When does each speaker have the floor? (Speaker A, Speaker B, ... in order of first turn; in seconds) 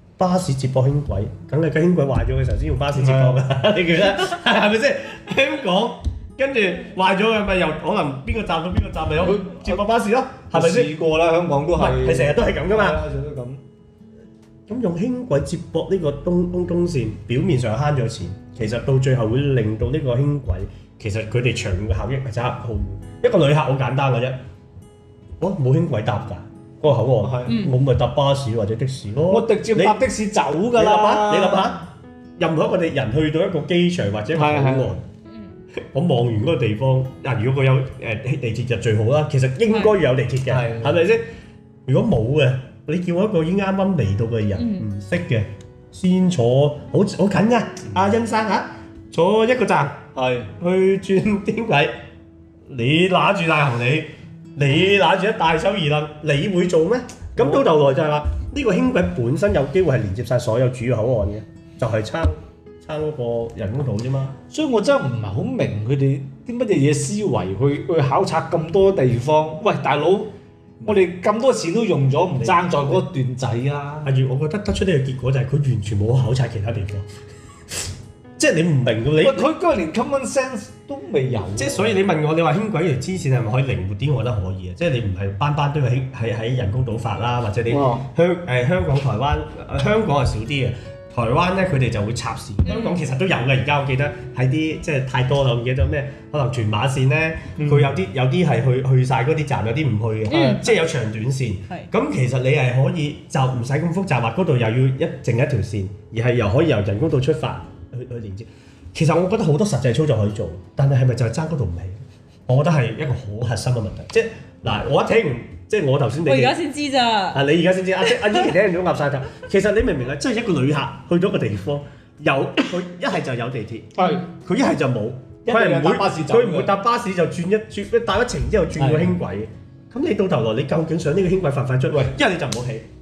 Speaker A: 0.2-10.9, 11.7-13.0, 14.7-24.4, 25.4-30.0, 30.7-35.0, 35.9-41.2, 41.9-50.0, 50.6-51.9, 52.7-64.4, 72.4-73.0, 74.0-77.1, 78.4-79.5, 81.5-116.6, 117.3-132.8
Speaker B: 2.9-3.4, 9.2-9.7, 10.5-13.6, 27.2-27.6, 29.3-31.8, 34.3-34.9, 40.5-41.0, 50.1-50.5, 64.5-70.3, 70.8-74.1, 79.2-81.9, 87.7-88.0, 97.6-97.9, 124.0-124.2, 125.4-126.7, 128.7-129.2
Speaker C: 27.5-27.7, 44.5-44.9, 92.7-93.0, 100.3-100.7, 116.2-117.4, 118.1-118.5, 124.0-124.2